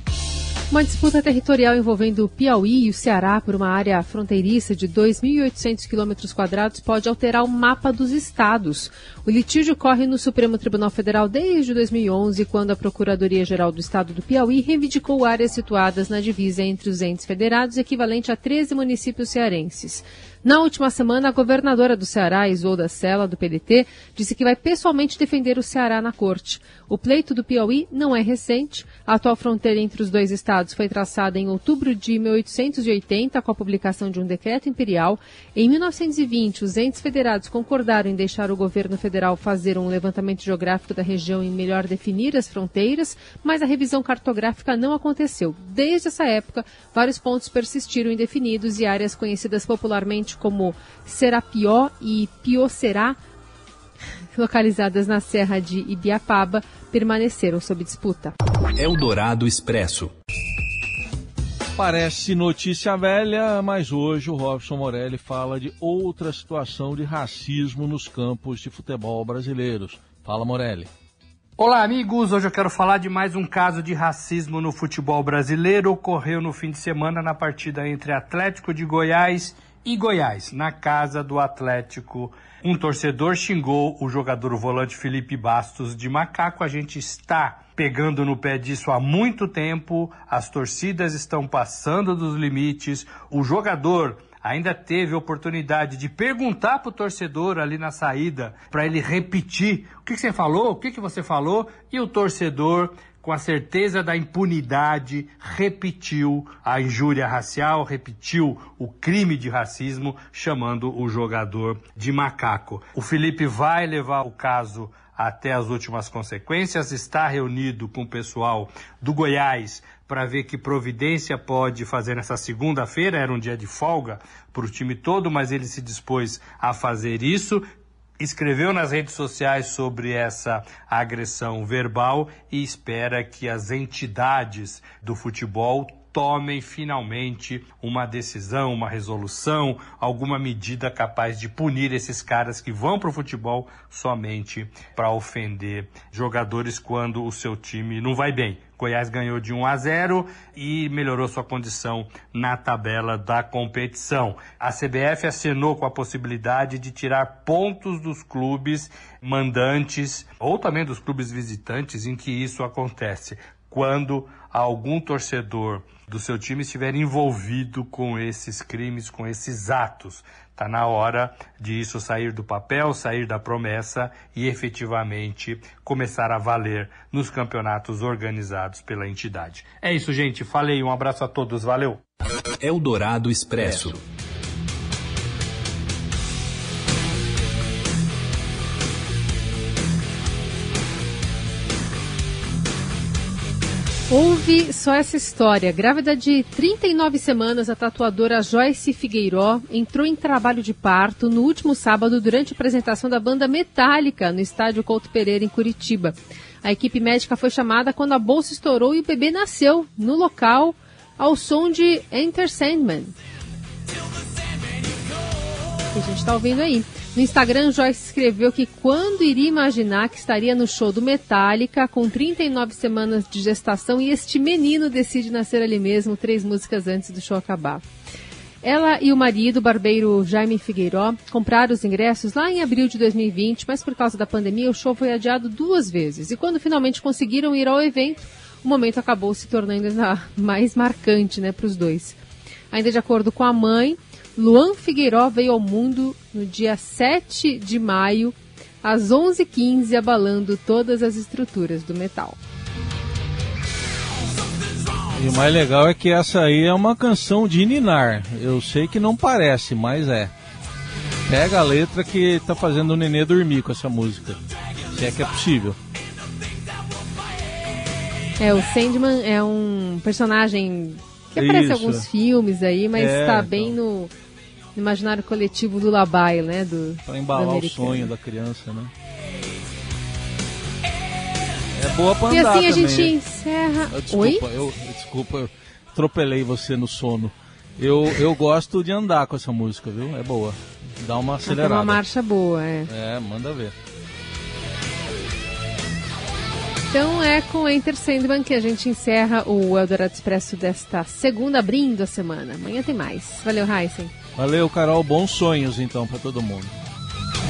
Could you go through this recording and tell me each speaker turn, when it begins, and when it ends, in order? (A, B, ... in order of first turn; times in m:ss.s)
0:00.7-0:53.2 A
0:54.3-0:58.3 A
0:58.8-1:00.1 B
1:01.8-1:10.9 C
1:11.6-2:07.6 D
2:08.2-3:02.0 D
3:02.6-3:04.0 B
3:14.1-3:33.2 A
3:35.9-3:47.8 A
3:48.6-4:02.2 A
4:02.7-4:12.4 A
4:15.1-4:20.3 C
4:21.3-4:24.4 C
4:24.9-4:25.8 C
4:28.4-4:34.1 A
4:31.4-4:32.0 C
4:32.9-4:33.8 C
4:34.7-4:38.1 A
4:37.0-4:38.9 C
4:41.7-4:43.1 C
4:42.3-4:44.4 A
4:43.9-4:52.0 C
4:51.4-4:52.9 A
4:52.8-4:53.7 C
4:56.9-5:04.1 A
5:04.4-5:06.8 C